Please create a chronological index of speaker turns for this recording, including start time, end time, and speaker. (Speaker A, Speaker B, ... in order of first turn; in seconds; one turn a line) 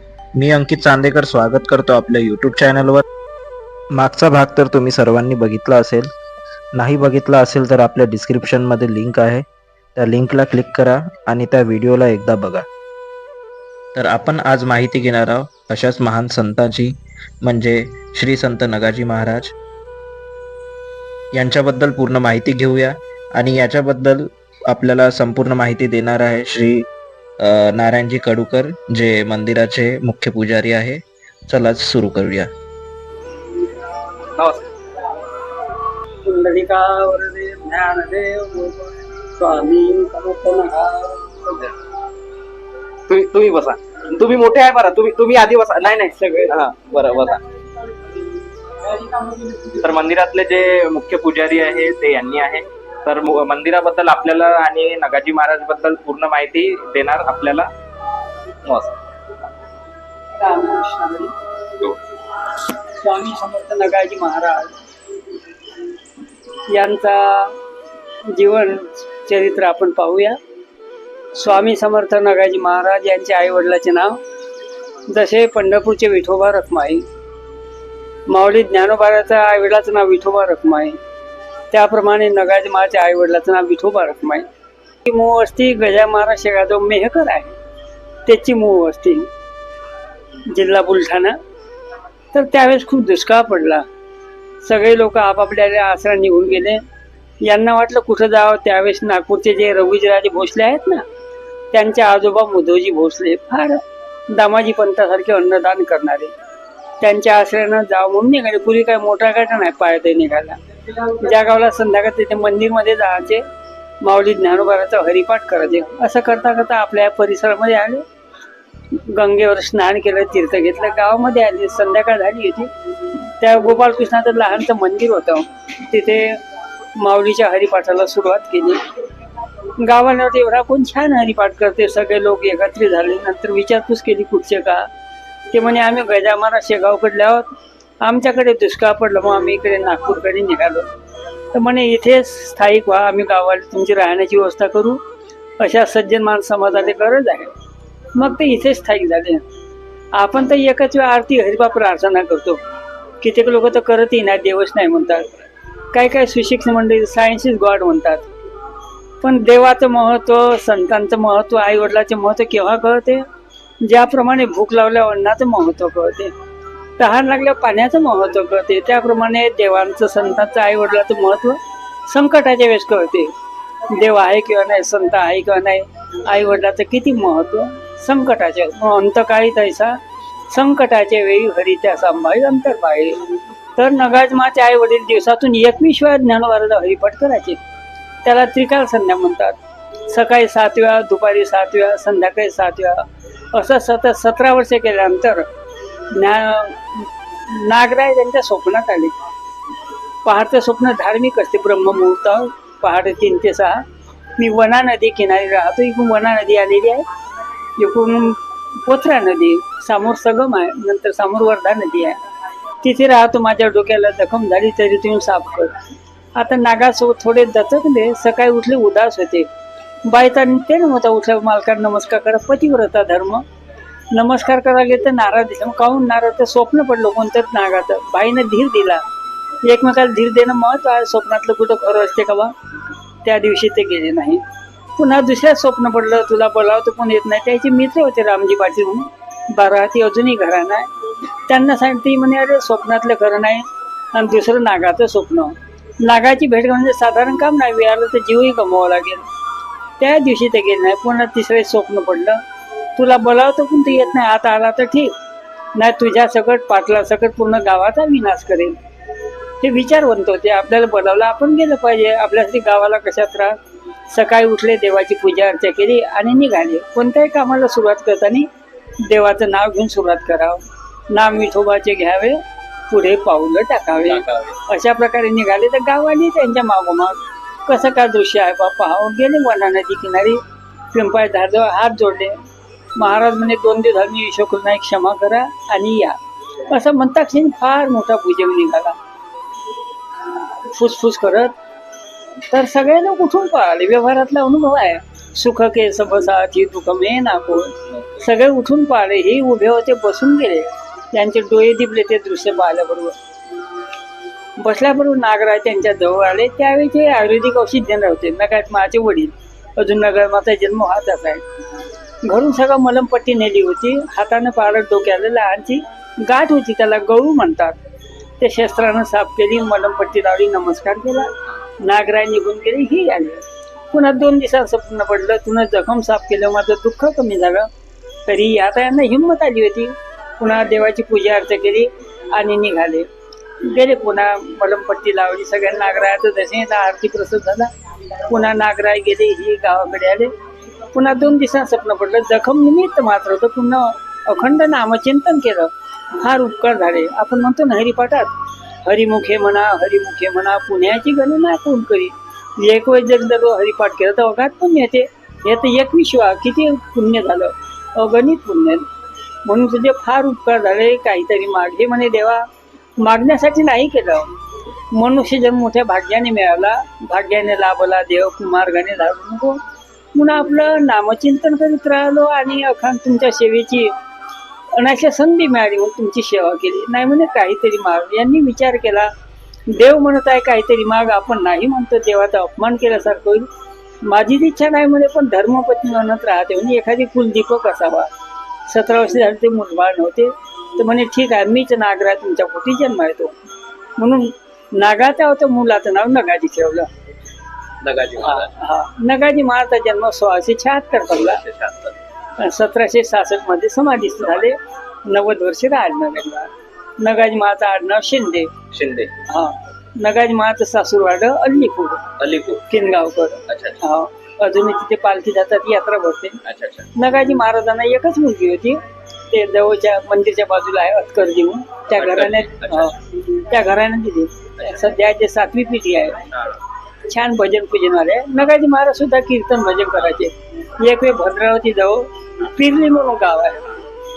Speaker A: 0.3-3.0
Speaker A: 4.0-6.1
Speaker A: 6.8-9.4
Speaker A: 10.0-12.7
Speaker A: 13.9-19.5
Speaker A: 21.3-26.9
Speaker A: 27.4-32.5
Speaker B: 34.3-34.7
Speaker C: 36.2-41.6
Speaker B: 43.1-47.4
Speaker C: 46.2-46.6
Speaker C: 49.0-49.5
Speaker B: 49.6-57.7
Speaker B: 58.6-59.0
Speaker C: 60.4-61.4
Speaker C: 62.5-64.7
Speaker C: 66.7-67.5
Speaker C: 68.3-70.4
Speaker C: 71.3-74.2
Speaker C: 75.1-77.0
Speaker C: 78.3-81.0
Speaker C: 81.7-84.5
Speaker C: 85.0-87.5
Speaker C: 88.2-89.3
Speaker C: 90.5-91.4
Speaker C: 92.3-93.9
Speaker C: 94.6-96.8
Speaker C: 97.4-101.0
Speaker C: 101.7-106.3
Speaker C: 107.0-113.5
Speaker C: 114.0-118.0
Speaker C: 118.9-126.4
Speaker C: 127.0-128.8
Speaker C: 129.8-134.9
Speaker C: 135.5-137.5
Speaker C: 138.0-140.9
Speaker C: 141.5-145.0
Speaker C: 145.6-147.5
Speaker C: 148.2-149.4
Speaker C: 150.2-152.6
Speaker C: 153.2-155.3
Speaker C: 155.9-158.3
Speaker C: 159.2-163.2
Speaker C: 163.8-166.3
Speaker C: 167.0-173.3
Speaker C: 173.9-180.0
Speaker C: 180.5-187.6
Speaker C: 188.2-195.5
Speaker C: 196.1-199.2
Speaker C: 200.2-203.8
Speaker C: 204.4-207.1
Speaker C: 207.8-212.2
Speaker C: 212.8-215.7
Speaker C: 216.4-219.5
Speaker C: 220.1-223.4
Speaker C: 224.1-229.0
Speaker C: 229.7-232.5
Speaker C: 233.2-234.4
Speaker C: 235.0-249.3
Speaker C: 250.0-252.4
Speaker C: 253.0-255.1
Speaker C: 255.8-258.8
Speaker C: 259.6-263.6
Speaker C: 264.1-268.5
Speaker C: 269.1-280.4
Speaker B: 274.0-274.6
Speaker C: 280.9-282.4
Speaker C: 283.0-286.2
Speaker C: 286.7-289.0
Speaker C: 290.5-291.5
Speaker C: 292.5-303.2
Speaker B: 297.9-298.2
Speaker C: 304.6-311.4
Speaker C: 312.2-317.8
Speaker C: 318.4-327.7
Speaker C: 328.3-333.1
Speaker C: 333.6-337.7
Speaker C: 338.3-340.3
Speaker C: 340.9-358.9
Speaker C: 359.4-362.4
Speaker C: 363.0-364.3
Speaker C: 364.9-369.6
Speaker C: 370.1-373.9
Speaker C: 374.7-379.1
Speaker C: 379.7-383.5
Speaker C: 384.1-388.1
Speaker C: 388.7-393.3
Speaker C: 394.0-396.9
Speaker B: 397.8-398.5
Speaker C: 398.2-401.4
Speaker B: 401.1-402.0
Speaker C: 402.4-408.6
Speaker B: 408.7-409.2
Speaker C: 409.3-412.1
Speaker B: 412.2-412.7
Speaker C: 412.7-416.4
Speaker B: 413.5-413.8
Speaker B: 416.4-416.9
Speaker C: 416.9-418.8
Speaker C: 419.3-426.3
Speaker B: 421.9-423.0
Speaker B: 424.6-424.8
Speaker B: 426.3-426.6
Speaker C: 427.1-433.7